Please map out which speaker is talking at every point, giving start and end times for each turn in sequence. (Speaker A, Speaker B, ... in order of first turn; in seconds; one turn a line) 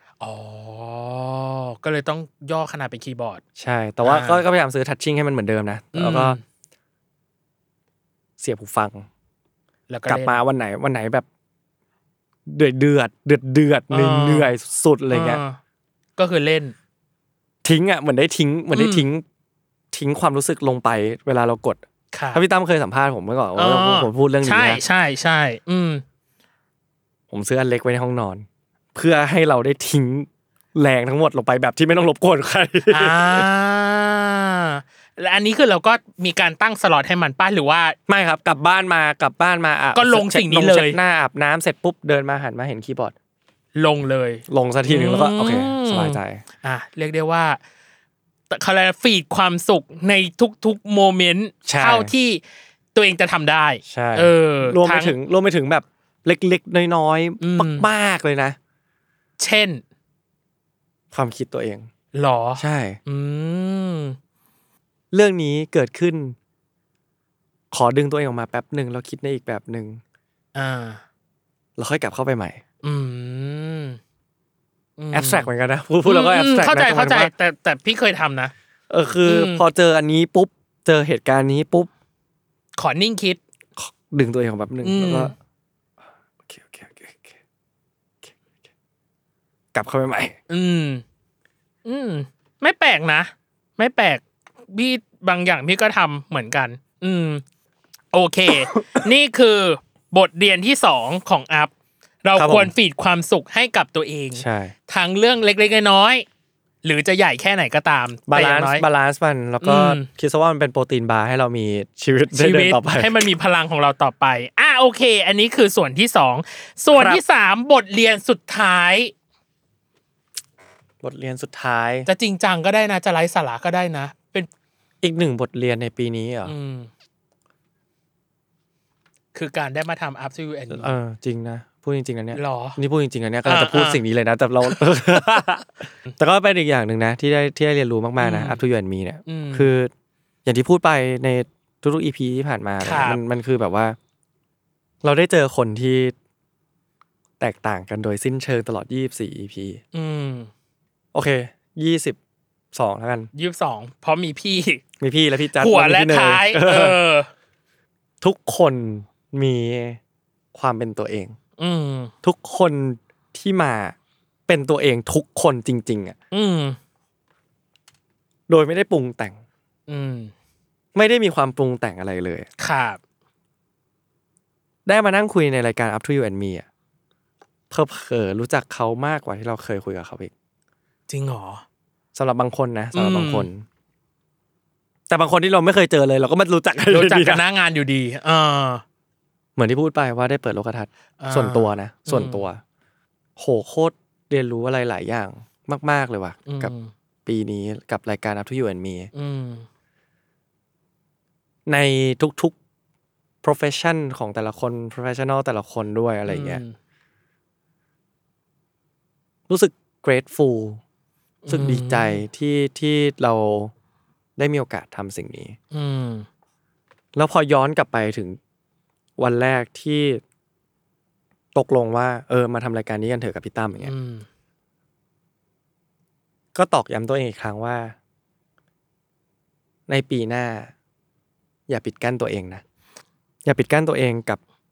Speaker A: 0.2-3.4
Speaker B: 3.5-6.4
Speaker A: 4.0-4.4
Speaker A: 5.9-6.4
Speaker B: 8.4-9.1
Speaker A: 9.9-10.4
Speaker B: 10.1-11.2
Speaker B: 12.5-15.4
Speaker A: 13.9-14.5
Speaker A: 15.1-15.6
Speaker A: 16.2-16.7
Speaker B: 17.6-19.2
Speaker A: 18.7-19.1
Speaker B: 19.9-24.8
Speaker A: 22.1-22.4
Speaker A: 23.6-26.0
Speaker B: 27.3-33.5
Speaker A: 32.9-38.0
Speaker B: 38.1-43.1
Speaker A: 39.9-41.0
Speaker A: 43.7-47.6
Speaker B: 44.5-46.4
Speaker A: 48.5-52.4
Speaker B: 51.6-52.1
Speaker A: 52.9-55.1
Speaker B: 53.9-58.6
Speaker A: 57.4-57.9
Speaker A: 59.4-59.8
Speaker B: 61.1-61.9
Speaker A: 62.1-64.2
Speaker B: 62.6-63.0
Speaker B: 65.1-66.3
Speaker B: 67.7-70.0
Speaker A: 70.5-71.0
Speaker B: 71.8-72.6
Speaker A: 72.8-74.0
Speaker A: 75.0-75.5
Speaker B: 75.1-77.3
Speaker A: 76.0-78.5
Speaker B: 78.9-81.9
Speaker A: 79.2-79.6
Speaker A: 82.8-83.4
Speaker B: 83.8-85.3
Speaker A: 84.8-85.3
Speaker B: 86.5-87.3
Speaker B: 89.7-90.4
Speaker A: 90.5-91.0
Speaker A: 91.8-97.4
Speaker A: 98.1-101.7
Speaker A: 102.2-106.2
Speaker B: 102.3-102.7
Speaker B: 104.3-104.7
Speaker A: 106.8-108.8
Speaker B: 108.3-113.2
Speaker A: 109.6-110.1
Speaker A: 112.3-119.1
Speaker B: 116.9-117.2
Speaker B: 121.0-122.1
Speaker A: 122.0-124.5
Speaker B: 125.0-126.5
Speaker A: 126.4-126.9
Speaker A: 129.3-130.9
Speaker B: 130.7-139.9
Speaker A: 132.3-132.8
Speaker A: 133.4-134.0
Speaker A: 138.2-138.6
Speaker A: 139.3-139.7
Speaker B: 140.4-144.0
Speaker A: 142.8-143.2
Speaker B: 145.0-146.1
Speaker B: 147.4-149.8
Speaker A: 149.9-150.5
Speaker B: 151.1-152.2
Speaker B: 152.7-153.3
Speaker A: 153.3-154.8
Speaker B: 155.0-157.0
Speaker A: 155.6-157.3
Speaker B: 158.2-160.0
Speaker B: 160.5-161.3
Speaker A: 161.6-162.1
Speaker B: 162.2-163.9
Speaker B: 164.5-166.2
Speaker A: 166.3-166.8
Speaker B: 168.5-169.4
Speaker A: 169.9-170.3
Speaker B: 170.9-172.5
Speaker A: 172.6-173.0
Speaker B: 174.8-176.7
Speaker B: 177.7-180.3
Speaker A: 181.1-181.6
Speaker B: 182.1-183.7
Speaker A: 182.9-183.5
Speaker B: 185.1-187.4
Speaker A: 186.9-188.8
Speaker B: 189.6-192.6
Speaker A: 191.2-192.4
Speaker B: 193.4-196.7
Speaker A: 196.4-196.9
Speaker B: 197.2-199.1
Speaker A: 199.1-199.6
Speaker B: 201.7-202.6
Speaker B: 203.4-206.6
Speaker A: 206.3-206.7
Speaker B: 209.5-210.8
Speaker A: 211.4-212.2
Speaker B: 211.5-213.7
Speaker B: 214.4-215.6
Speaker A: 215.7-216.3
Speaker B: 217.1-218.4
Speaker B: 219.2-220.2
Speaker B: 221.5-223.9
Speaker A: 223.8-224.2
Speaker B: 226.5-227.9
Speaker B: 229.9-230.7
Speaker B: 231.7-232.6
Speaker B: 233.4-234.4